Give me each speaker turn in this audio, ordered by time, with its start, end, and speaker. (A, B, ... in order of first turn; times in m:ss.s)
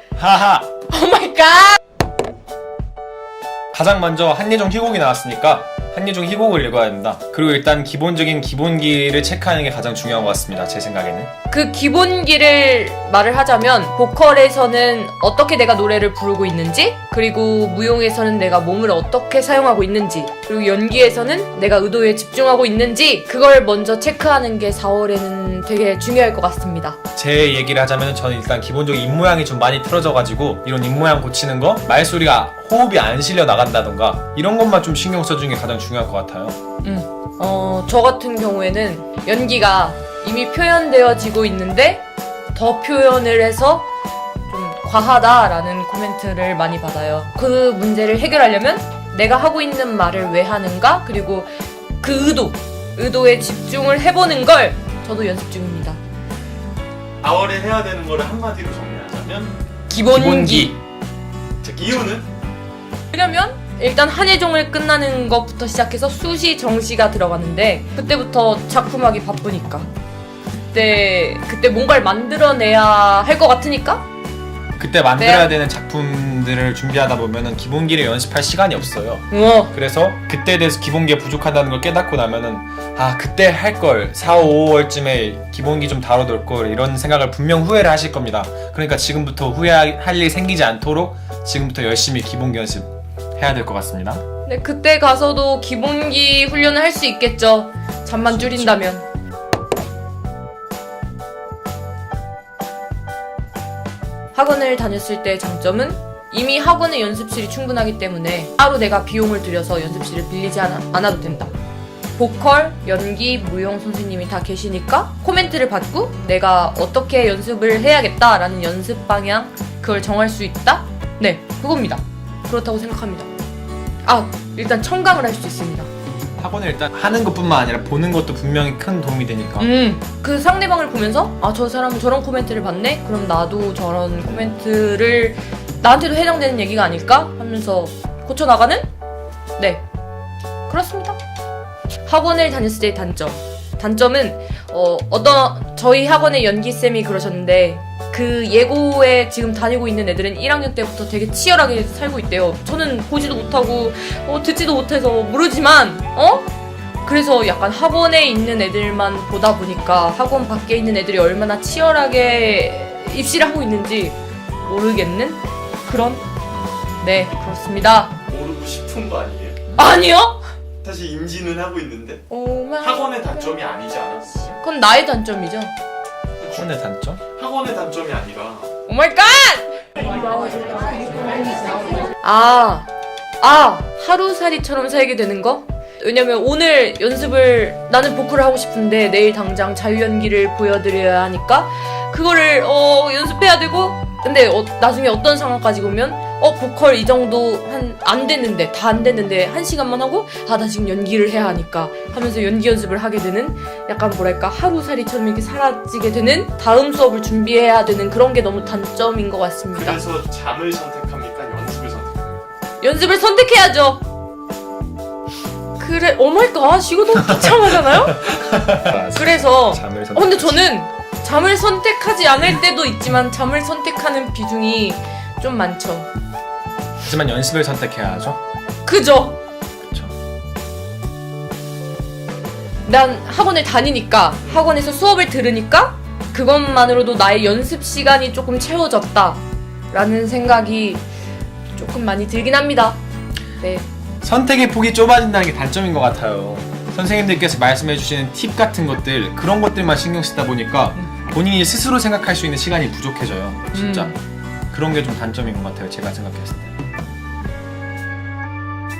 0:00.2-0:00.7 A
0:00.9-0:01.8 B
0:03.7-0:11.3 A
0:11.5-0:27.0 B
0:27.1-0:36.6 A
0:36.8-0:43.8 B
0:44.5-0:56.0 B
0:57.2-0:59.6 C
0:59.9-1:00.7 B
1:00.1-1:00.8 A
1:01.6-1:02.3 C
1:03.1-1:09.9 B
1:10.7-1:14.0 B
1:14.8-1:34.2 A
1:15.2-1:15.6 B
1:19.3-1:19.7 B
1:34.4-1:39.0 B
1:38.2-1:38.8 A
1:44.3-1:51.5 B
1:52.2-2:03.3 B
2:04.0-2:05.9 B
2:06.4-2:09.7 A
2:09.6-2:18.8 B
2:19.6-2:19.8 B
2:20.7-2:21.2 B
2:22.0-2:36.5 B
2:37.0-2:46.2 B
2:46.5-2:47.0 A
2:47.0-2:48.1 B
2:48.3-2:49.6 C
2:49.8-2:50.4 B
2:50.8-2:52.2 C
2:52.3-2:53.1 B
2:52.8-2:54.6 C
2:54.6-2:55.7 B
2:56.5-2:57.2 A
2:57.3-2:58.7 C
2:58.9-2:59.8 B
3:02.2-3:02.9 B
3:03.4-3:30.0 B
3:29.7-3:32.4 C
3:32.8-3:34.0 B
3:35.8-3:38.4 B
3:38.3-3:40.6 A
3:39.1-3:46.1 B
3:47.0-3:48.4 A
3:48.8-3:49.4 B
3:49.8-3:50.1 A
3:52.8-4:01.0 B
4:01.7-4:03.0 B
4:03.6-4:03.8 B
4:04.2-4:14.1 A
4:13.7-4:14.2 B
4:14.7-4:16.7 A